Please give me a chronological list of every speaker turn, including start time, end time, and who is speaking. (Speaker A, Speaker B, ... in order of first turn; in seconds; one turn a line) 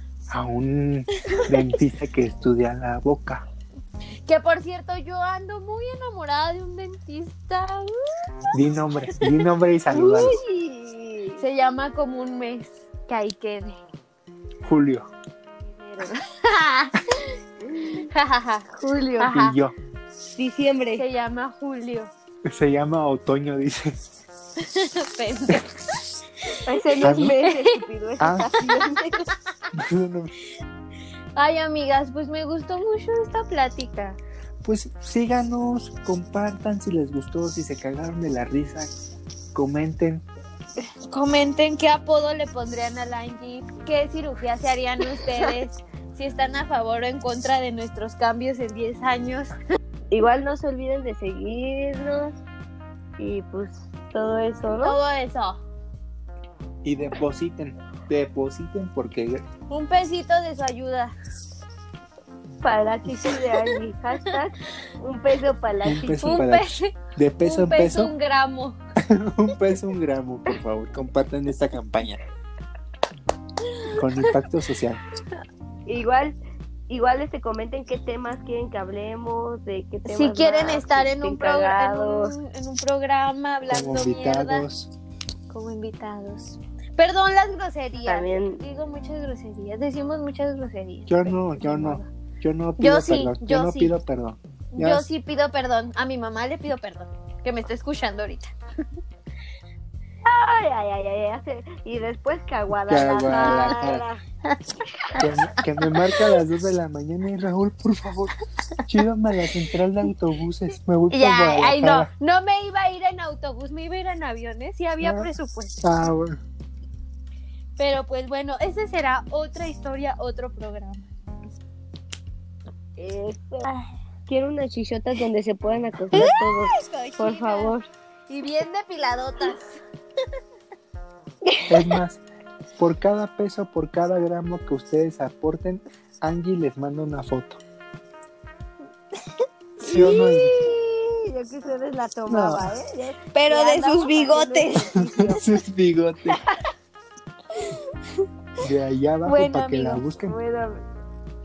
Speaker A: 0.3-3.4
Speaker B: 1.2-1.6
Speaker B: 4.2-7.9
Speaker A: 8.5-10.4
Speaker B: 9.2-10.4
Speaker C: 9.9-11.4
Speaker B: 11.4-13.8
Speaker A: 14.6-15.1
Speaker C: 15.7-16.2
Speaker B: 16.1-17.3
Speaker C: 17.6-18.1
Speaker B: 18.1-19.6
Speaker C: 18.8-19.3
Speaker A: 19.3-19.7
Speaker C: 20.3-21.0
Speaker B: 21.0-22.1
Speaker A: 22.4-23.9
Speaker B: 24.6-27.8
Speaker C: 26.6-29.3
Speaker A: 27.0-27.4
Speaker A: 28.2-28.5
Speaker A: 29.7-30.3
Speaker B: 31.4-34.2
Speaker A: 34.6-39.0
Speaker A: 39.5-40.2
Speaker B: 41.1-49.5
Speaker C: 50.1-52.4
Speaker C: 53.2-55.0
Speaker B: 54.8-55.6
Speaker A: 56.8-59.4
Speaker B: 59.7-61.1
Speaker C: 62.6-66.3
Speaker A: 65.8-68.1
Speaker B: 66.2-68.8
Speaker A: 69.0-72.2
Speaker B: 73.8-74.3
Speaker A: 73.9-75.0
Speaker C: 75.9-76.3
Speaker C: 76.9-82.3
Speaker B: 80.0-84.6
Speaker A: 83.7-84.9
Speaker B: 85.5-92.1
Speaker C: 88.0-88.6
Speaker A: 91.1-95.0
Speaker B: 92.8-93.9
Speaker B: 94.7-98.5
Speaker C: 100.2-104.2
Speaker A: 102.9-104.0
Speaker B: 103.3-103.9
Speaker B: 104.4-106.3
Speaker A: 105.2-108.3
Speaker A: 108.8-112.1
Speaker B: 111.1-115.9
Speaker A: 115.0-115.3
Speaker A: 115.8-116.4
Speaker B: 117.8-121.1
Speaker C: 123.0-123.7
Speaker C: 124.3-127.9
Speaker B: 126.1-127.7
Speaker B: 128.3-129.8
Speaker A: 131.7-132.2
Speaker A: 132.8-137.6
Speaker A: 139.8-140.6
Speaker C: 139.8-145.5
Speaker B: 139.9-140.2
Speaker A: 142.3-142.7
Speaker B: 143.3-145.0
Speaker A: 145.2-146.4
Speaker B: 147.5-148.2
Speaker A: 148.6-150.4
Speaker B: 149.2-150.0
Speaker C: 150.2-150.8